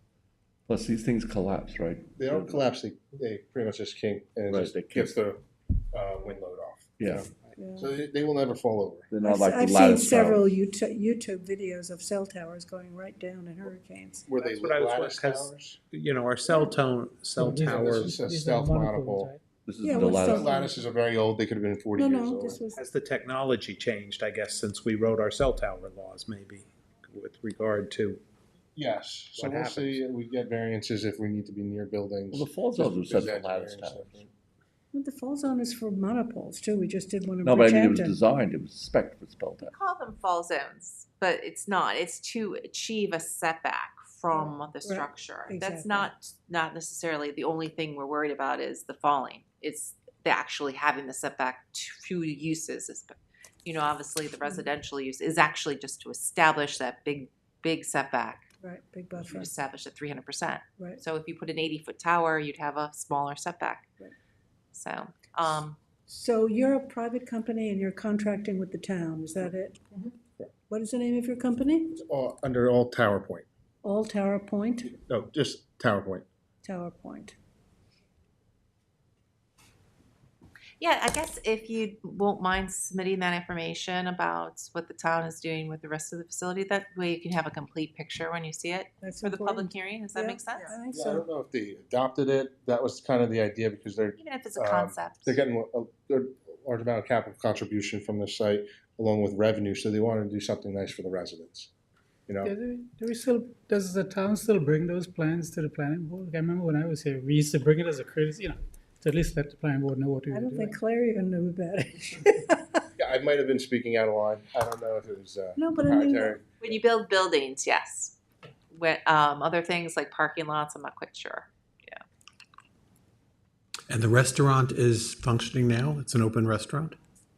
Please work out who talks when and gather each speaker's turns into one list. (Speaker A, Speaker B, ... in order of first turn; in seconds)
Speaker A: 0.7-2.7, 4.5-5.2, 7.0-7.3, 9.1-10.5, 19.7-20.5, 32.3-34.2, 37.4-39.7
Speaker B: 2.1-9.1, 14.3-15.8, 17.5-19.3, 20.1-22.6, 28.8-34.3, 70.2-70.5, 72.0-73.5, 75.0-76.2, 90.9-101.7, 102.3-102.5, 113.0-116.8
Speaker C: 7.6-7.9, 9.2-14.3, 19.8-20.9, 22.0-22.8, 34.9-38.2, 44.3-46.1, 58.6-59.5, 66.1-69.8, 70.7-72.0, 73.8-75.0, 76.6-77.4, 89.0-91.2, 110.3-112.8, 115.6-116.4
Speaker D: 14.3-18.2, 22.7-28.2, 29.4-30.0
Speaker E: 17.4-19.4, 102.4-110.8
Speaker F: 39.6-58.5, 59.2-63.9, 64.7-65.8, 80.8-90.7, 94.2-95.4, 116.6-118.2, 118.7-122.0
Speaker G: 123.9-127.0